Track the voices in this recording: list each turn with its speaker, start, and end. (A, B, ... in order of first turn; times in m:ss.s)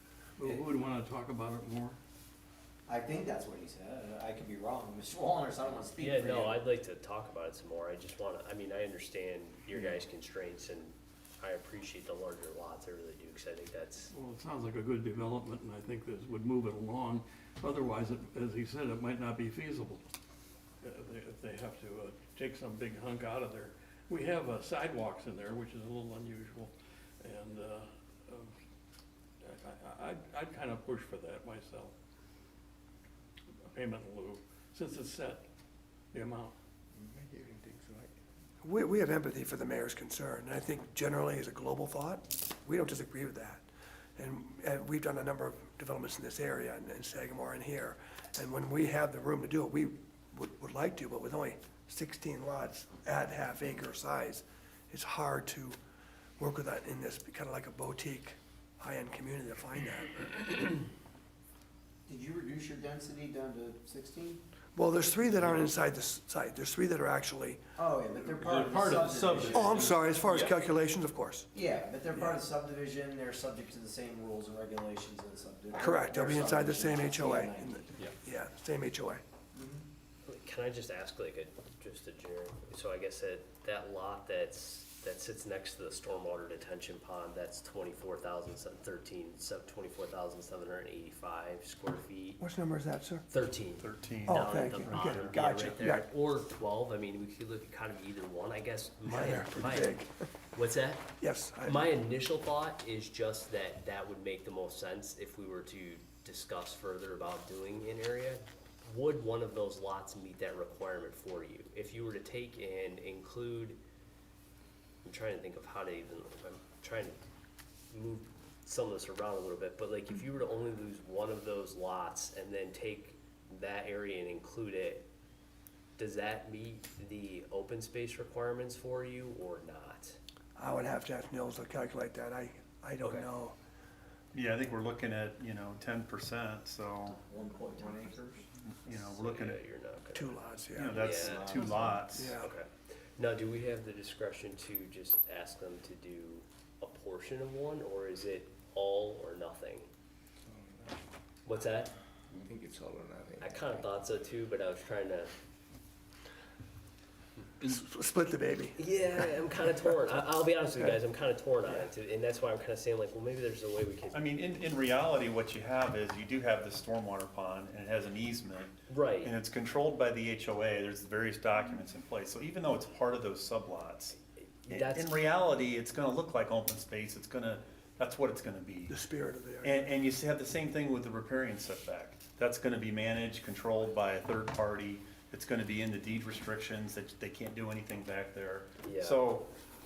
0:00.4-0:02.0 A
0:02.9-0:06.6 B
0:06.0-0:14.1 C
0:14.1-0:20.0 A
0:20.8-0:28.5 A
0:29.4-0:31.9 A
0:33.7-0:35.4 A
0:36.1-0:36.5 A
0:37.0-0:38.1 D
0:38.6-0:43.6 E
0:44.2-0:55.8 E
0:56.4-1:00.4 E
1:02.1-1:04.4 B
1:04.8-1:07.6 E
1:07.8-1:09.8 B
1:08.4-1:10.5 A
1:09.1-1:09.7 F
1:09.5-1:11.5 E
1:11.5-1:17.9 B
1:15.7-1:19.2 E
1:19.5-1:19.8 B
1:20.2-1:32.4 C
1:32.4-1:33.2 E
1:33.3-1:41.1 C
1:33.8-1:35.4 F
1:34.3-1:36.1 E
1:39.0-1:40.1 E
1:41.2-1:41.9 E
1:41.6-1:53.8 C
1:55.0-1:57.2 C
1:57.9-2:05.1 C
2:06.0-2:10.2 C
2:10.6-2:13.6 E
2:14.3-2:17.2 F
2:17.2-2:18.4 B
2:18.6-2:19.6 F
2:18.9-2:20.4 C
2:20.1-2:22.5 E
2:20.7-2:22.3 F
2:20.9-2:21.7 C
2:22.3-2:29.9 C
2:31.4-2:31.9 C
2:32.3-2:33.7 D
2:33.4-2:35.3 C
2:37.6-2:38.8 E
2:38.8-2:44.2 C
2:44.1-2:54.2 F
2:48.9-2:49.3 C
2:54.6-2:55.2 C
2:54.7-2:59.0 F
2:58.9-2:59.8 E
2:59.6-3:09.5 F
3:08.8-3:09.2 C